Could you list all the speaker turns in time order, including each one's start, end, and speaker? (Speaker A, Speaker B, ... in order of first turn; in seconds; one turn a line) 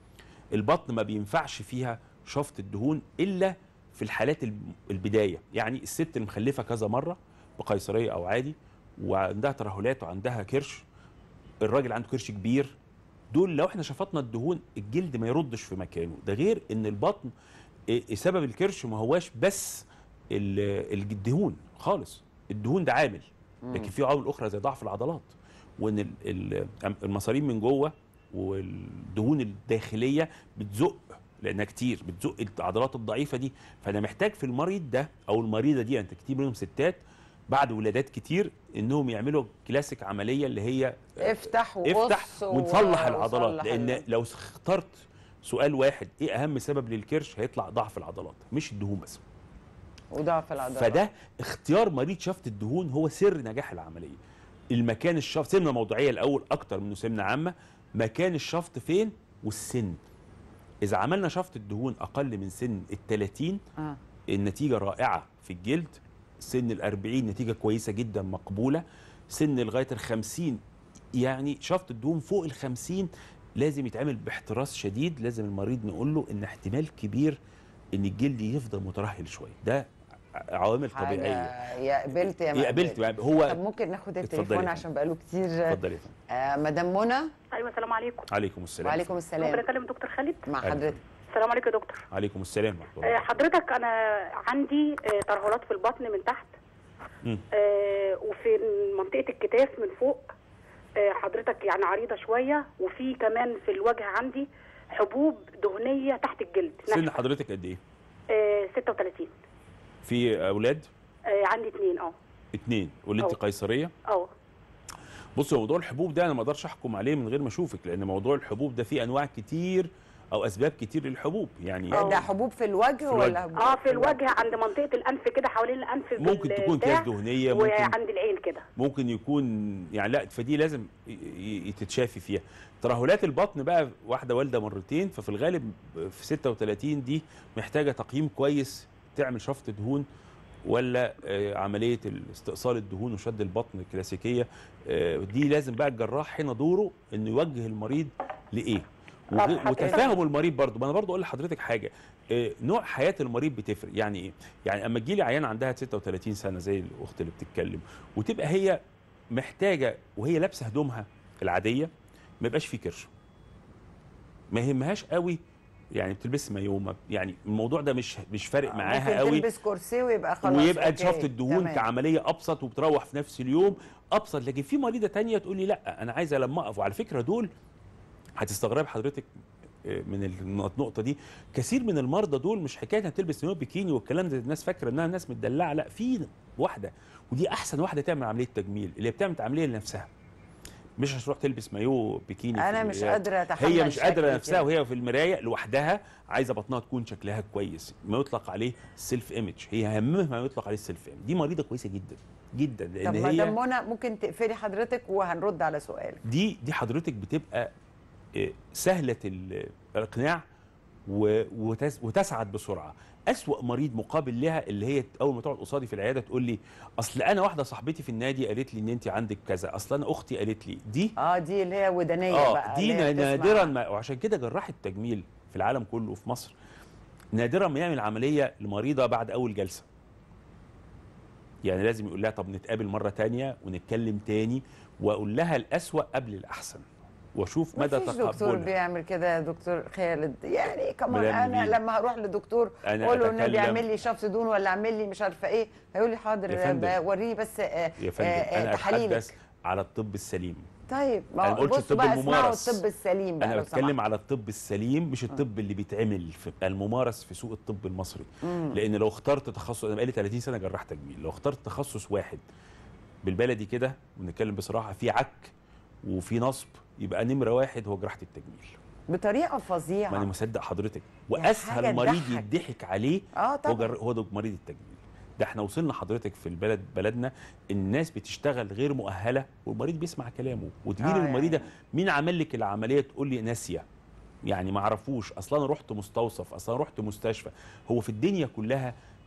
Speaker A: 0.5-10.8
Speaker A: 11.6-12.8
Speaker A: 13.3-17.3
Speaker A: 17.9-49.2
Speaker B: 23.6-23.9
Speaker B: 41.2-44.0
Speaker B: 50.1-51.0
Speaker A: 50.6-54.2
Speaker A: 54.7-60.0
Speaker A: 60.8-63.6
Speaker A: 64.3-70.6
Speaker A: 71.1-77.4
Speaker A: 77.9-81.5
Speaker B: 80.9-85.8
Speaker A: 82.1-83.6
Speaker A: 84.2-84.8
Speaker A: 85.7-86.1
Speaker B: 86.3-87.3
Speaker C: 87.5-88.3
Speaker A: 88.3-89.1
Speaker B: 88.8-89.6
Speaker C: 89.4-90.5
Speaker B: 90.5-91.0
Speaker A: 90.6-91.0
Speaker C: 91.3-92.0
Speaker A: 92.1-93.3
Speaker C: 93.0-96.5
Speaker C: 97.5-100.3
Speaker C: 101.0-107.2
Speaker A: 106.9-107.8
Speaker C: 108.3-109.3
Speaker A: 110.0-110.9
Speaker C: 111.3-112.1
Speaker A: 112.5-113.9
Speaker A: 115.4-122.3
Speaker B: 121.9-124.6
Speaker C: 121.9-122.2
Speaker A: 123.0-123.4
Speaker C: 123.6-128.6
Speaker A: 126.2-128.0
Speaker A: 128.8-140.1
Speaker A: 140.6-158.8
Speaker C: 149.3-150.2
Speaker B: 149.7-150.1
Speaker A: 159.3-163.1
Speaker A: 164.5-165.4
Speaker A: 165.9-169.4
Speaker B: 168.7-171.8
Speaker A: 170.4-177.5
Speaker A: 178.4-179.3
Speaker A: 179.8-190.1
Speaker A: 191.0-203.6
Speaker B: 192.6-194.7
Speaker B: 203.0-206.2
Speaker A: 206.2-207.7
Speaker A: 208.3-210.4
Speaker A: 211.1-221.1
Speaker B: 221.2-223.7
Speaker A: 222.3-226.6
Speaker A: 227.3-229.9
Speaker A: 231.6-238.7
Speaker B: 237.8-249.3
Speaker A: 241.1-241.8
Speaker A: 242.8-243.9
Speaker A: 246.5-247.0
Speaker A: 248.0-250.7
Speaker B: 250.9-253.9
Speaker A: 251.4-252.8
Speaker A: 253.4-262.4
Speaker B: 258.4-258.8
Speaker A: 263.2-265.5
Speaker A: 266.0-268.8
Speaker B: 269.1-270.3
Speaker A: 270.1-283.9
Speaker B: 271.4-272.4
Speaker B: 273.4-273.9
Speaker B: 281.0-281.7
Speaker A: 284.4-288.9